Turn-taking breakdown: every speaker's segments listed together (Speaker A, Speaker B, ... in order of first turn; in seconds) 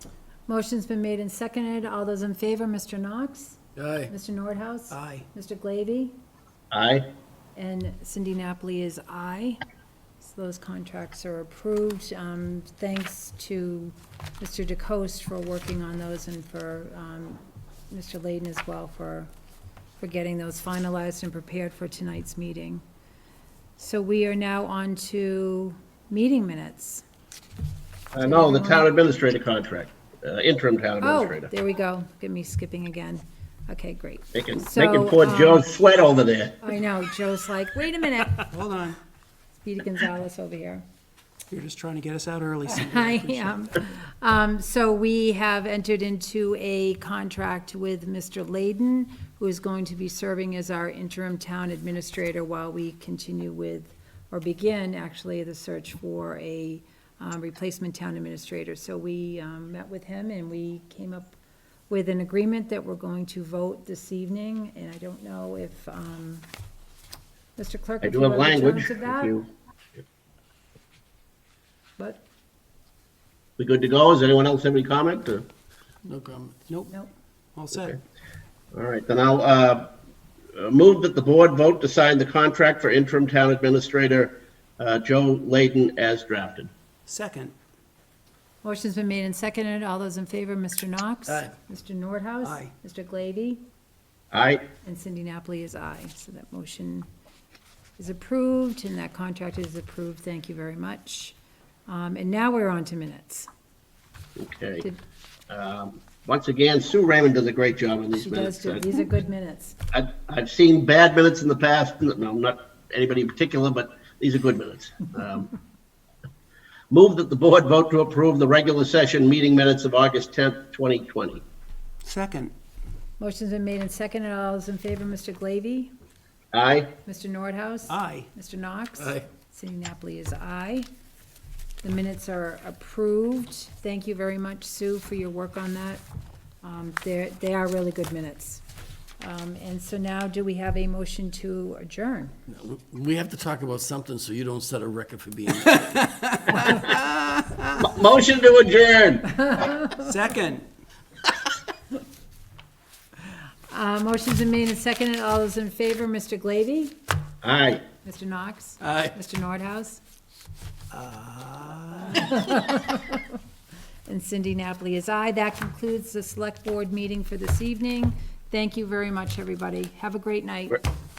Speaker A: 0.5-6.1, 7.5-9.6, 10.2-19.3, 20.0-22.8, 23.8-27.0, 28.2-28.9, 31.0-35.7, 36.6-38.5, 39.6-40.9, 42.7-61.4, 61.9-66.5, 67.6-69.4, 72.0-72.2, 88.6-93.6, 94.8-97.1, 98.0-101.4, 101.9-103.5, 108.1-109.8, 123.2-125.9, 127.0-130.9, 131.8-136.0, 136.6-138.6, 139.2-142.3, 149.4-150.1, 153.7-156.9, 158.0-160.0, 162.1-163.4, 164.1-170.8
Speaker B: 3.8-4.1, 76.0-76.6, 129.0-129.3, 142.5-146.0
Speaker C: 4.9-5.3, 38.4-39.0, 41.5-43.7, 77.6-78.0, 87.1-87.5, 92.4-92.7, 122.0-122.5, 127.9-128.3, 146.4-147.1, 149.9-150.6, 160.9-162.3
Speaker D: 6.7-7.0, 28.1-31.5, 34.3-36.7, 68.0-69.5, 73.6-75.5, 77.7-78.0, 78.7-79.9, 80.6-86.7, 94.3-94.6, 104.4-104.8, 105.5-108.9, 109.9-115.5, 116.9-121.4, 126.5-126.9, 147.8-149.3, 157.4-157.8